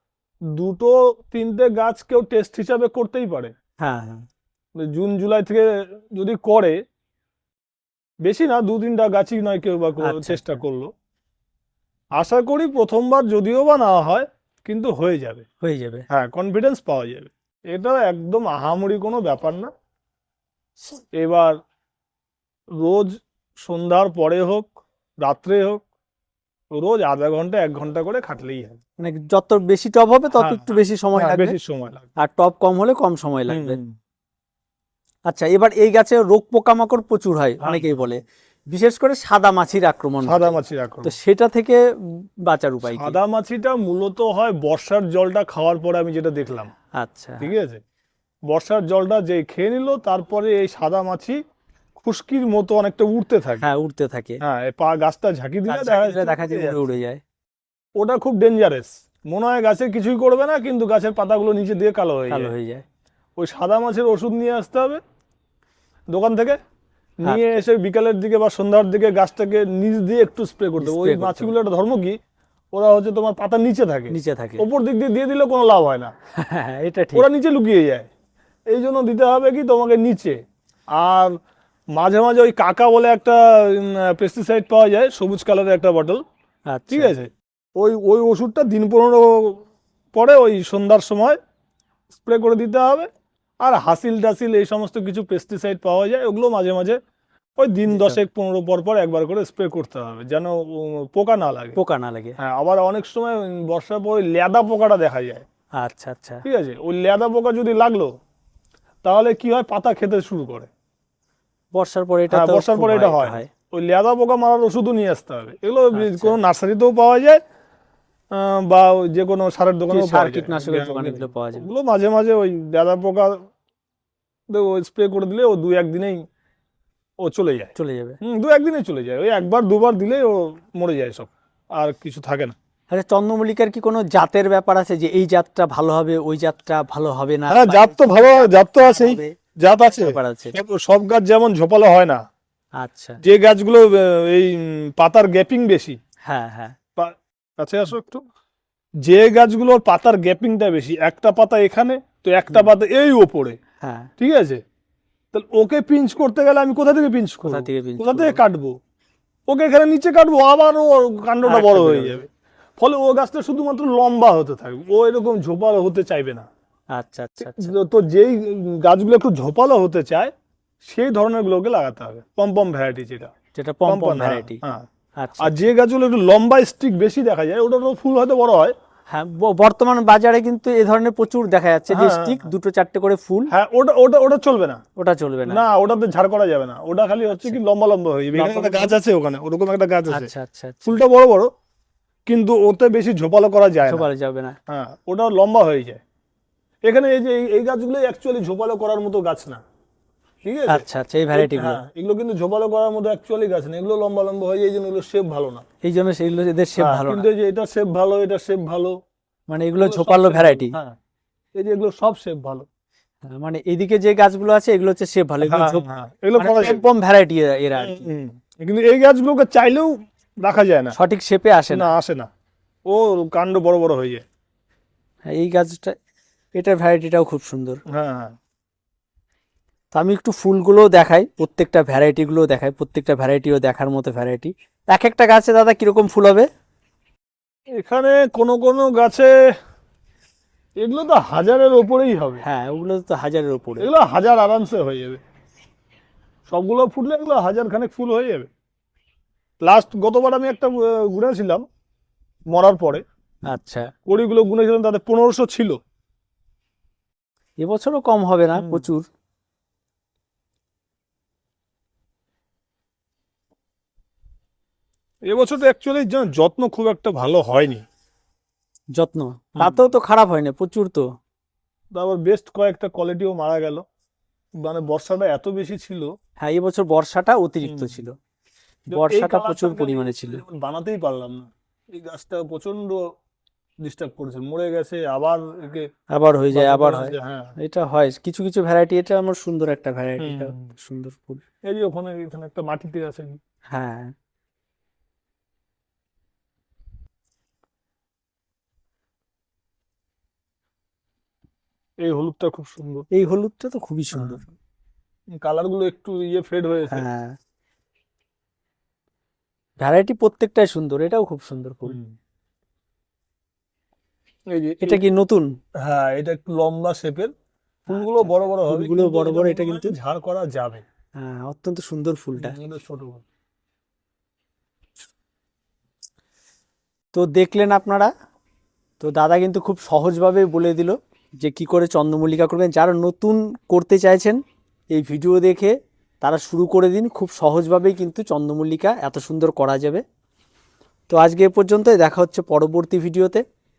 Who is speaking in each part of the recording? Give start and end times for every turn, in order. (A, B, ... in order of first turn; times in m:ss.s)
0:00.6-0:03.5 A
0:03.8-0:04.3 B
0:04.8-0:06.8 A
0:08.2-0:10.9 A
0:10.0-0:10.6 B
0:12.2-0:15.4 A
0:15.6-0:16.1 B
0:16.1-0:19.7 A
0:21.2-0:21.6 A
0:22.8-0:24.7 A
0:25.2-0:25.8 A
0:26.7-0:28.8 A
0:29.0-0:31.6 B
0:30.4-0:32.1 A
0:32.2-0:33.8 B
0:33.5-0:34.0 A
0:35.3-0:38.2 B
0:37.6-0:38.0 A
0:38.7-0:40.5 B
0:40.2-0:41.2 A
0:41.0-0:43.2 B
0:42.8-0:46.7 A
0:47.0-0:47.5 B
0:47.4-0:47.8 A
0:48.5-0:51.4 A
0:52.0-0:53.6 A
0:53.6-0:54.4 B
0:54.4-0:56.8 A
0:55.7-0:57.2 B
0:58.0-1:02.5 A
1:02.3-1:02.8 B
1:03.4-1:05.0 A
1:06.1-1:06.6 A
1:07.2-1:12.2 A
1:07.2-1:07.6 B
1:10.8-1:11.5 B
1:12.7-1:16.1 A
1:14.1-1:14.6 B
1:16.4-1:17.3 B
1:17.1-1:18.1 A
1:18.7-1:20.4 A
1:20.9-1:21.4 A
1:21.9-1:26.2 A
1:26.7-1:27.1 B
1:26.9-1:31.4 A
1:32.1-1:33.1 A
1:33.6-1:37.0 A
1:37.6-1:41.8 A
1:37.9-1:38.2 B
1:41.8-1:42.4 B
1:42.4-1:45.5 A
1:45.8-1:46.4 B
1:46.4-1:48.1 A
1:49.0-1:50.7 A
1:51.7-1:53.5 B
1:52.3-1:57.4 A
1:55.9-1:56.4 B
1:58.3-2:03.4 A
1:59.9-2:01.7 B
2:04.5-2:06.2 A
2:07.2-2:12.6 A
2:07.8-2:08.2 B
2:12.9-2:19.3 B
2:17.5-2:22.2 A
2:19.9-2:20.6 B
2:22.8-2:23.2 B
2:23.2-2:26.0 A
2:26.3-2:26.8 B
2:27.0-2:28.2 A
2:29.0-2:33.6 A
2:33.8-2:34.1 B
2:34.2-2:34.6 A
2:35.3-2:38.8 A
2:37.4-2:38.4 B
2:39.5-2:42.3 A
2:41.4-2:42.2 B
2:42.8-2:46.5 A
2:46.9-2:47.7 B
2:47.4-2:50.3 A
2:50.8-2:53.3 A
2:53.6-2:54.6 B
2:53.9-2:54.9 A
2:55.2-2:55.7 B
2:55.4-2:58.7 A
2:59.1-3:03.5 B
3:01.9-3:02.5 A
3:03.5-3:04.8 A
3:05.0-3:05.6 B
3:05.5-3:10.3 A
3:08.3-3:09.0 B
3:10.1-3:11.0 B
3:10.9-3:11.5 A
3:12.3-3:14.1 A
3:13.9-3:14.6 B
3:14.7-3:16.0 A
3:16.9-3:19.6 A
3:20.4-3:25.6 A
3:20.7-3:21.8 B
3:25.8-3:27.3 B
3:26.8-3:29.0 A
3:29.5-3:30.8 B
3:29.8-3:31.0 A
3:31.6-3:32.7 A
3:33.2-3:35.8 B
3:35.4-3:36.8 A
3:36.4-3:38.1 B
3:37.8-3:41.0 A
3:41.0-3:41.9 B
3:41.7-3:42.3 A
3:42.9-3:44.2 A
3:45.3-3:46.0 B
3:46.6-3:47.8 B
3:47.9-3:48.3 A
3:49.9-3:56.5 B
3:57.8-3:59.3 A
4:00.8-4:02.4 A
4:02.4-4:03.9 B
4:03.8-4:05.2 A
4:06.5-4:08.5 A
4:09.6-4:11.6 A
4:12.5-4:13.0 A
4:13.5-4:13.9 B
4:14.1-4:15.8 A
4:17.6-4:19.1 B
4:18.6-4:18.9 A
4:25.3-4:27.8 A
4:29.0-4:31.1 B
4:29.6-4:29.9 A
4:31.9-4:33.8 A
4:34.6-4:36.1 A
4:36.4-4:38.1 B
4:37.6-4:38.0 A
4:38.9-4:43.0 A
4:38.9-4:40.4 B
4:43.8-4:45.9 A
4:46.1-4:51.4 B
4:46.5-4:47.5 A
4:50.2-4:50.7 A
4:51.7-4:53.4 A
4:53.7-4:54.1 B
5:02.0-5:03.1 A
5:03.1-5:04.6 B
5:04.1-5:04.4 A
5:05.4-5:07.0 A
5:06.9-5:07.4 B
5:09.8-5:12.0 B
5:11.9-5:12.1 A
5:14.5-5:15.0 A
5:14.8-5:15.5 B
5:15.8-5:17.3 A
5:17.9-5:20.8 A
5:17.9-5:20.0 B
5:21.2-5:22.6 B
5:22.4-5:23.2 A
5:27.1-5:28.1 B
5:29.0-5:34.4 B
5:34.9-5:40.0 B
5:41.1-5:43.4 B